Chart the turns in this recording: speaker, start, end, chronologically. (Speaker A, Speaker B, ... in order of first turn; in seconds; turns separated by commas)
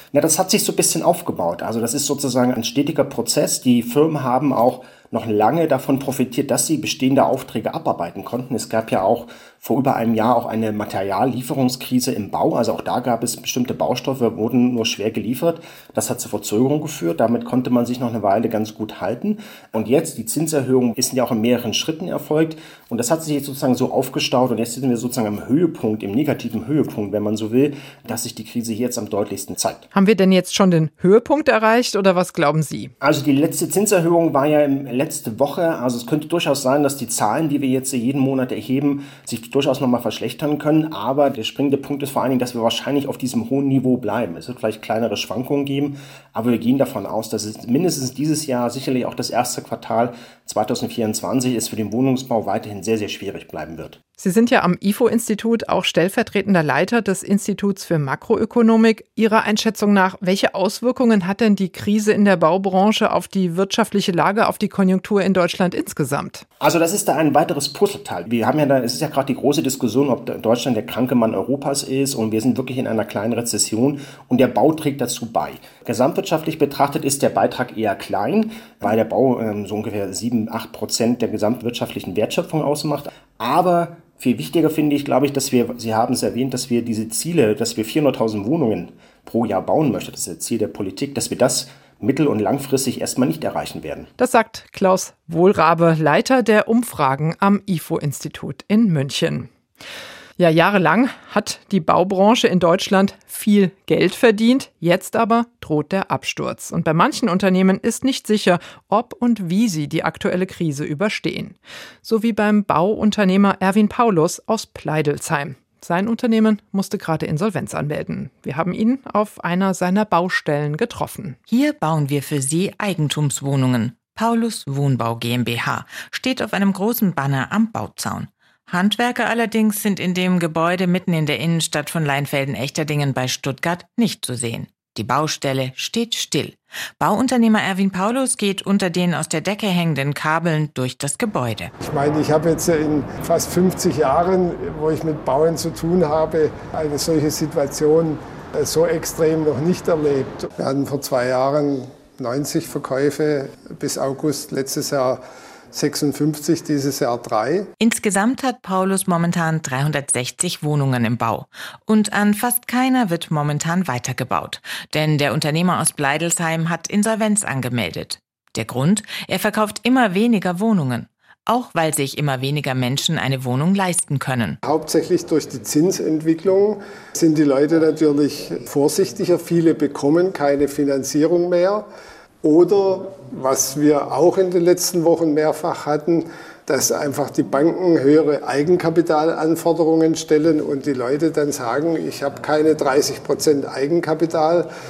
Speaker A: 0.1-29.8, Speaker B: 29.9-32.9, Speaker A: 33.0-54.0, Speaker B: 54.2-66.4, Speaker A: 66.6-94.1, Speaker B: 94.2-99.5, Speaker B: 100.4-121.4, Speaker C: 121.5-141.7, Speaker D: 141.8-157.7, Speaker C: 157.8-174.6, Speaker D: 174.6-181.8, Speaker D: 182.4-194.7